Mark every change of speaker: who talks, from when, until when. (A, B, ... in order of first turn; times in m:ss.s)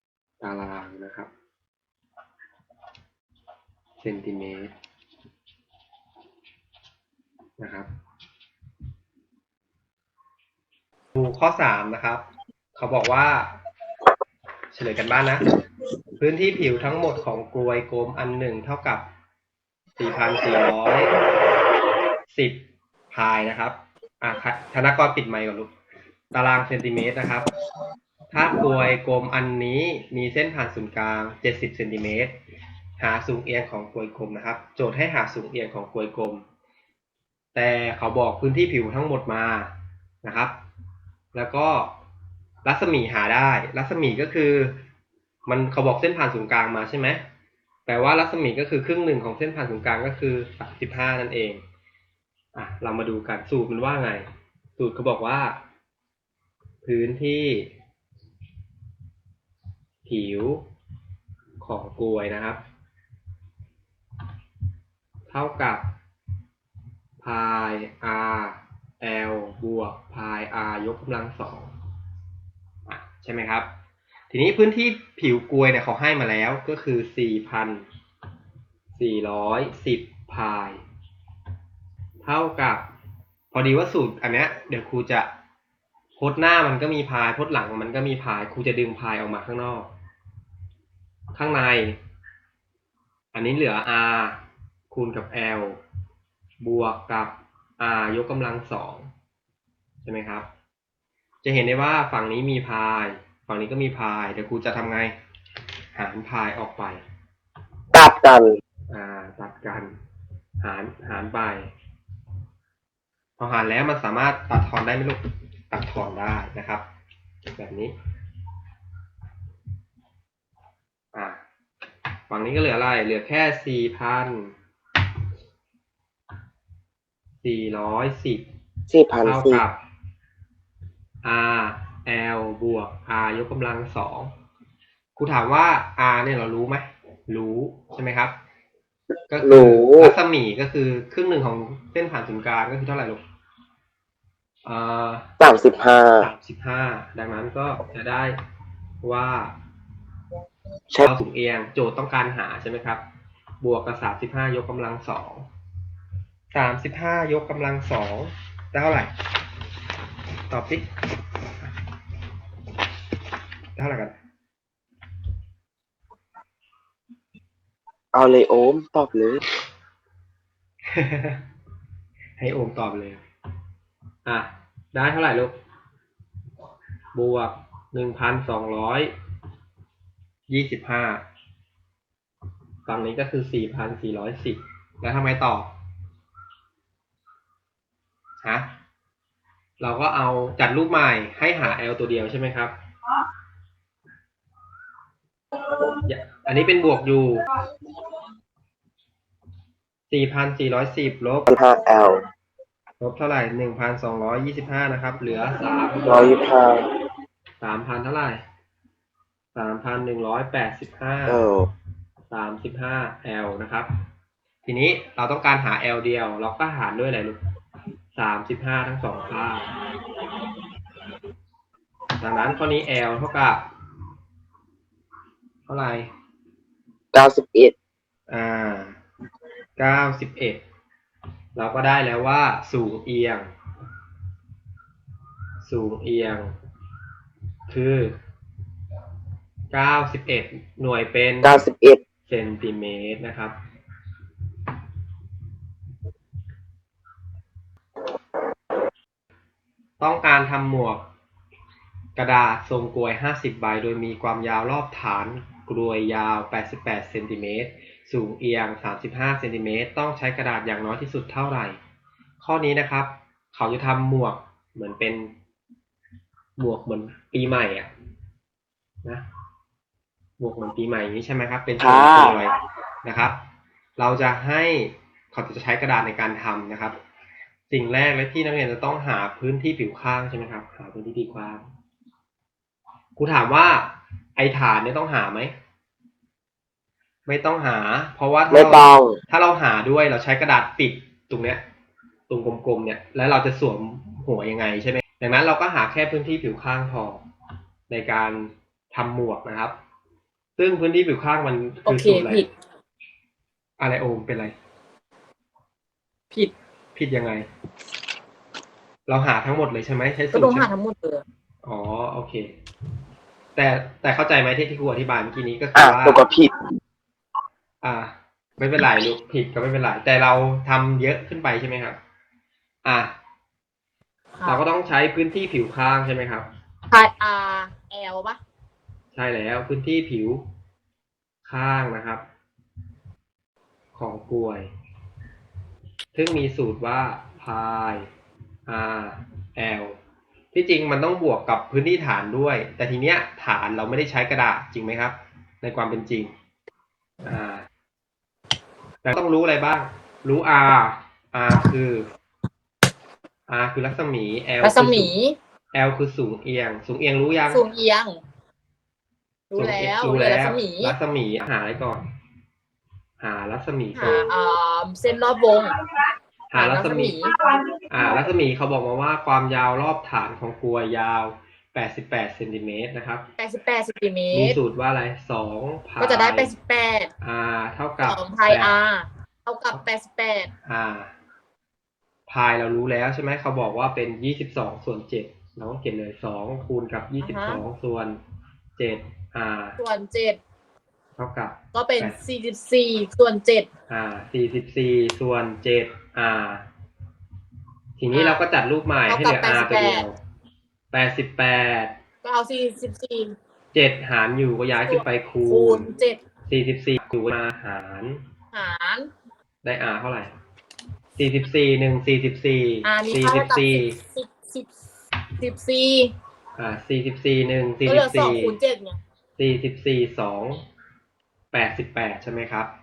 0:00.4-0:01.3 A
0:04.0-0:04.7 A
0:07.6-0:07.9 A
0:11.1-0:13.5 A
0:14.7-0:15.5 A
0:16.2-0:19.1 A
0:20.0-0:21.2 A
0:22.3-0:25.7 A
0:26.3-0:27.5 A
0:28.3-0:32.4 A
0:33.0-0:36.4 A
0:37.5-0:40.6 A
0:41.3-0:42.0 A
0:42.6-0:44.8 A
0:45.5-0:47.2 A
0:47.9-0:51.6 A
0:52.5-0:55.6 A
0:56.8-0:57.7 A
1:00.0-1:00.7 A
1:01.6-1:02.6 A
1:05.3-1:05.9 A
1:07.2-1:11.7 A
1:12.9-1:13.7 A
1:14.3-1:17.9 A
1:18.9-1:20.8 A
1:22.2-1:22.9 A
1:23.5-1:25.3 A
1:26.2-1:29.9 A
1:31.3-1:32.0 A
1:33.3-1:35.8 A
1:36.6-1:39.1 A
1:40.0-1:40.5 A
1:41.4-1:45.2 A
1:45.9-1:47.0 A
1:47.9-1:48.6 B
1:48.9-1:49.9 A
1:50.6-1:51.7 A
1:53.4-1:56.8 A
1:57.5-1:57.9 A
2:01.1-2:01.4 A
2:02.3-2:04.5 A
2:07.4-2:08.5 A
2:08.9-2:09.6 B
2:09.2-2:09.8 A
2:11.2-2:14.3 A
2:15.2-2:18.4 A
2:19.3-2:23.2 A
2:19.4-2:20.1 B
2:24.6-2:25.5 A
2:25.4-2:26.3 B
2:26.0-2:28.4 A
2:29.0-2:29.6 A
2:31.0-2:33.0 A
2:33.6-2:35.5 A
2:36.5-2:39.1 A
2:40.5-2:40.9 A
2:41.4-2:41.7 A
2:43.7-2:44.1 A
2:48.1-2:49.4 B
2:50.9-2:51.4 A
2:52.4-2:53.2 A
2:54.2-2:55.6 A
2:57.1-2:59.1 A
3:00.5-3:01.2 A
3:02.8-3:05.7 A
3:08.4-3:08.7 A
3:09.8-3:12.7 A
3:16.0-3:17.4 A
3:20.1-3:21.6 A
3:21.5-3:22.2 B
3:23.0-3:26.3 A
3:26.0-3:26.8 B
3:27.6-3:28.4 A
3:29.5-3:31.4 A
3:31.3-3:31.7 B
3:32.3-3:33.9 A
3:34.6-3:37.4 A
3:38.1-3:39.7 A
3:42.2-3:43.7 A
3:45.7-3:46.1 A
3:47.1-3:47.7 B
3:48.3-3:49.0 A
3:49.8-3:50.6 A
3:51.6-3:53.5 A
3:55.6-3:56.5 A
3:57.7-3:58.2 A
3:59.7-4:01.6 A
4:01.4-4:02.0 B
4:02.3-4:03.6 A
4:10.0-4:11.0 A
4:12.2-4:21.8 A
4:22.4-4:25.3 A
4:26.6-4:27.9 A
4:30.4-4:33.4 A
4:31.8-4:32.4 B
4:34.0-4:37.0 A
4:37.7-4:41.6 A
4:43.2-4:45.5 A
4:47.2-4:51.6 A
4:48.5-4:49.2 B
4:52.3-4:57.2 A
4:57.9-4:59.8 A
5:00.6-5:02.4 A
5:01.8-5:02.5 C
5:03.8-5:04.5 A
5:06.9-5:07.5 A
5:09.1-5:10.7 A
5:10.3-5:11.2 C
5:11.6-5:12.6 A
5:13.6-5:16.2 A
5:15.8-5:16.5 B
5:17.8-5:22.0 A
5:22.8-5:23.2 A
5:24.4-5:26.5 A
5:26.9-5:28.4 C
5:29.1-5:30.5 A
5:31.4-5:32.2 A
5:33.9-5:34.7 A
5:36.1-5:38.1 A
5:38.7-5:40.0 A
5:40.5-5:46.3 A
5:47.2-5:47.7 A
5:49.0-5:52.1 A
5:53.5-5:55.1 A
5:54.6-5:55.4 C
5:55.7-5:57.6 A
5:57.4-5:58.2 C
5:59.5-6:01.0 C
5:59.6-6:02.0 A
6:03.2-6:04.3 A
6:03.9-6:05.8 C
6:06.5-6:07.2 A
6:06.5-6:07.3 C
6:07.9-6:13.3 A
6:13.4-6:14.6 C
6:14.3-6:16.5 A
6:16.0-6:17.1 C
6:17.2-6:18.7 A
6:18.0-6:20.5 C
6:20.6-6:21.1 A
6:22.3-6:28.2 A
6:27.2-6:27.6 C
6:28.8-6:29.8 A
6:29.8-6:30.4 C
6:31.2-6:32.2 A
6:31.7-6:33.7 C
6:33.9-6:36.7 A
6:38.0-6:40.2 A
6:38.1-6:38.4 C
6:39.1-6:40.1 C
6:40.9-6:42.0 A
6:42.2-6:43.4 C
6:43.7-6:45.9 A
6:44.9-6:46.2 C
6:46.5-6:48.2 A
6:48.5-6:49.1 C
6:49.6-6:50.3 A
6:51.2-6:54.0 A
6:52.8-6:54.7 C
6:55.4-6:56.1 C
6:56.6-6:58.6 A
6:57.8-6:59.0 C
6:59.4-7:00.6 A
7:01.5-7:02.7 A